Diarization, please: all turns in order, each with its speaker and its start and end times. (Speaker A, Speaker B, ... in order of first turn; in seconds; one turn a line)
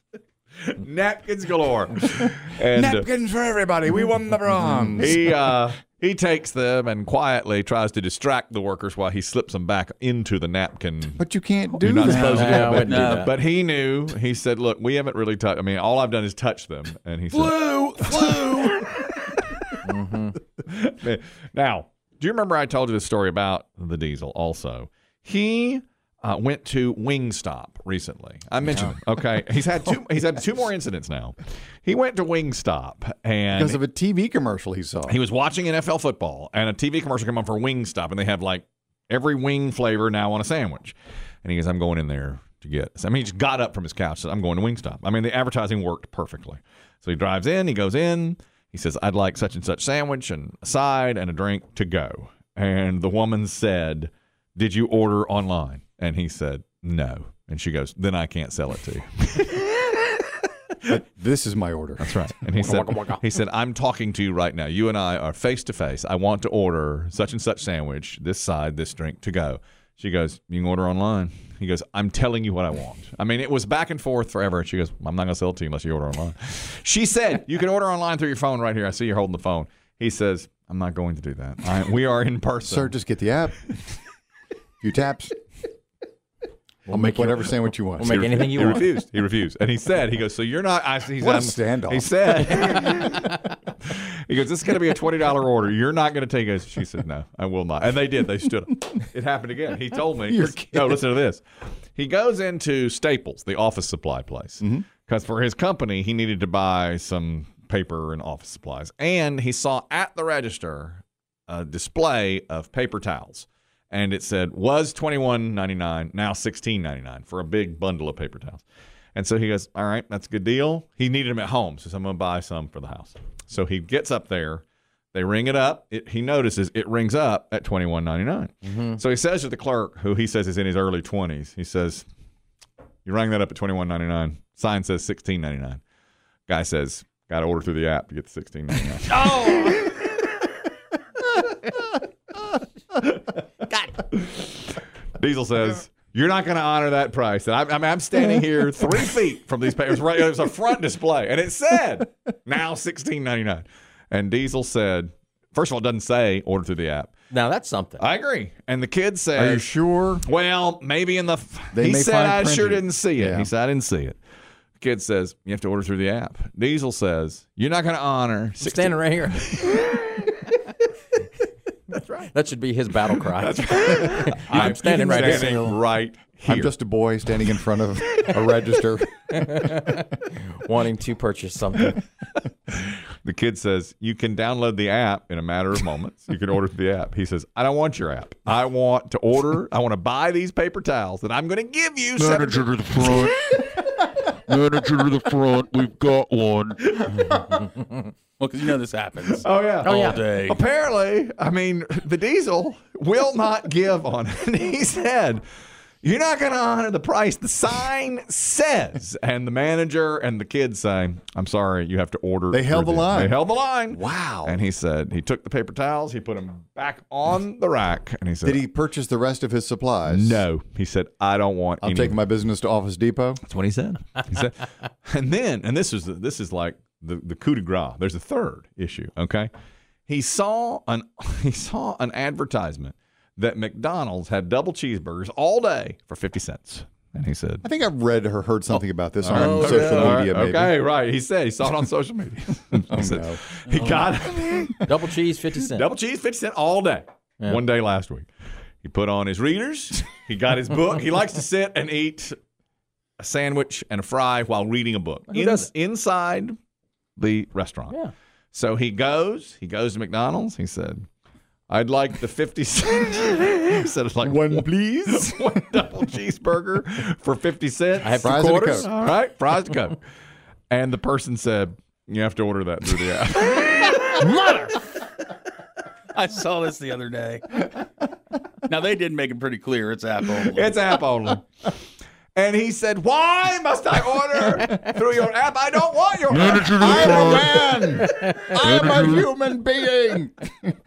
Speaker A: 0.6-3.1
Speaker B: 2.5-5.4
Speaker A: 5.0-11.2
Speaker B: 11.2-13.1
Speaker A: 11.7-19.8
Speaker C: 12.0-13.3
Speaker D: 12.1-13.3
Speaker D: 17.3-18.9
Speaker C: 19.8-20.4
Speaker A: 20.6-33.8
Speaker B: 33.5-35.1
Speaker A: 35.1-59.9
Speaker B: 60.9-62.8
Speaker A: 62.0-82.9
Speaker C: 62.8-63.2
Speaker B: 82.7-83.6
Speaker B: 84.8-85.3
Speaker B: 86.9-88.2
Speaker C: 86.9-87.4
Speaker C: 88.0-88.9
Speaker A: 88.0-101.4
Speaker B: 91.2-92.7
Speaker B: 100.3-101.0
Speaker A: 101.9-118.6
Speaker A: 119.1-132.0
Speaker C: 128.6-129.0
Speaker A: 133.0-135.8
Speaker A: 136.5-139.5
Speaker D: 139.1-139.8
Speaker C: 139.2-139.7
Speaker A: 143.9-157.1
Speaker C: 157.3-158.0
Speaker A: 158.0-164.2
Speaker B: 159.3-160.2
Speaker B: 161.7-163.5
Speaker A: 164.8-169.9
Speaker C: 168.6-170.1
Speaker A: 172.0-172.3
Speaker C: 172.2-175.8
Speaker A: 173.3-176.7
Speaker B: 174.5-175.8
Speaker B: 176.4-179.9
Speaker C: 179.4-182.0
Speaker A: 182.7-193.8
Speaker E: 192.2-193.6
Speaker E: 194.2-197.0
Speaker A: 196.8-197.7
Speaker D: 198.4-200.6
Speaker A: 199.3-205.4
Speaker C: 199.8-200.2
Speaker A: 206.0-218.6
Speaker B: 212.5-213.3
Speaker B: 213.9-214.6
Speaker B: 218.4-220.4
Speaker A: 220.1-222.2
Speaker B: 221.8-223.4
Speaker A: 223.4-229.5
Speaker A: 230.1-237.6
Speaker B: 237.6-240.7
Speaker A: 238.7-244.9
Speaker C: 239.3-240.2
Speaker B: 242.9-243.4
Speaker D: 243.7-244.1
Speaker C: 244.8-245.8
Speaker A: 245.6-248.3
Speaker A: 248.8-252.3
Speaker A: 253.2-256.6
Speaker C: 255.3-255.7
Speaker A: 257.2-258.0
Speaker A: 258.5-261.1
Speaker A: 261.7-270.0
Speaker B: 264.2-265.6
Speaker C: 268.0-268.9
Speaker B: 268.2-268.9
Speaker A: 270.7-274.7
Speaker C: 274.0-274.6
Speaker D: 276.1-277.7
Speaker D: 278.7-280.9
Speaker A: 280.2-281.4
Speaker A: 282.4-287.8
Speaker E: 286.3-287.4
Speaker B: 286.7-290.7
Speaker C: 288.1-288.5
Speaker E: 288.6-289.2